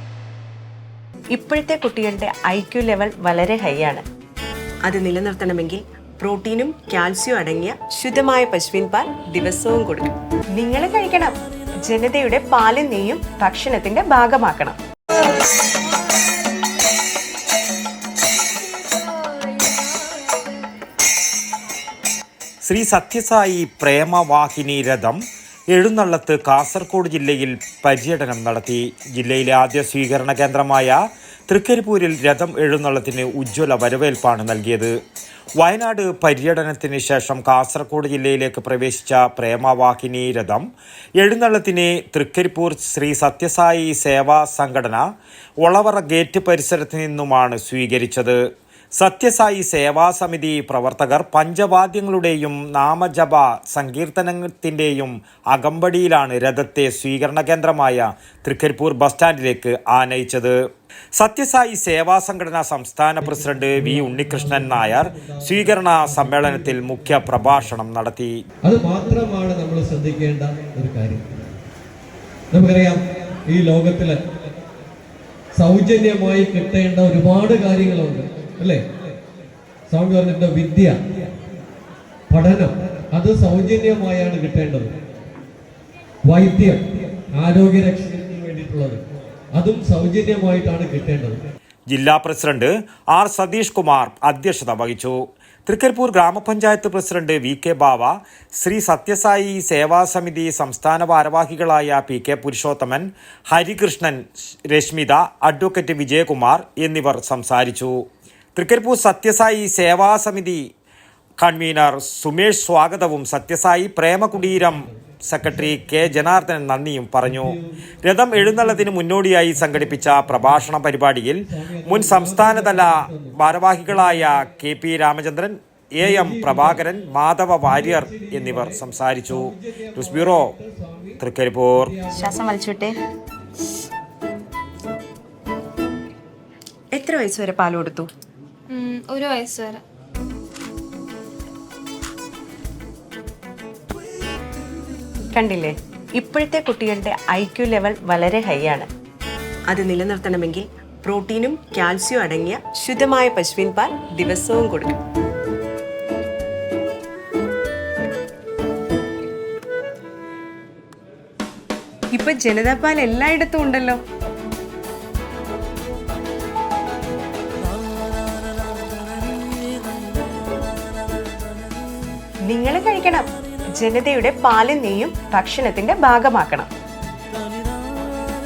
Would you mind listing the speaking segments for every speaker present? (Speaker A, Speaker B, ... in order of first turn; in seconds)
Speaker A: 1.3-4.0, 4.8-11.3, 11.9-14.8, 132.1-132.9, 136.9-138.1, 145.3-148.9, 149.7-154.9, 162.1-164.0, 172.5-173.2, 173.8-176.7
Speaker B: 18.9-19.8, 138.7-139.8
Speaker C: 22.6-25.2, 25.7-30.9, 31.5-34.9, 35.6-40.6, 41.2-45.0, 45.6-48.4, 49.0-60.5, 61.2-68.3, 91.9-107.9, 108.5-110.6, 111.4-130.5, 131.2-131.9
Speaker D: 63.2-67.7, 68.6-71.5, 72.5-74.2, 75.5-78.8, 79.9-81.0, 82.3-84.9, 86.2-86.8, 87.3-89.0, 89.5-91.4, 114.3-115.8, 117.2-118.9, 119.6-120.7, 121.5-124.4, 126.0-127.0, 127.6-131.2, 131.7-132.4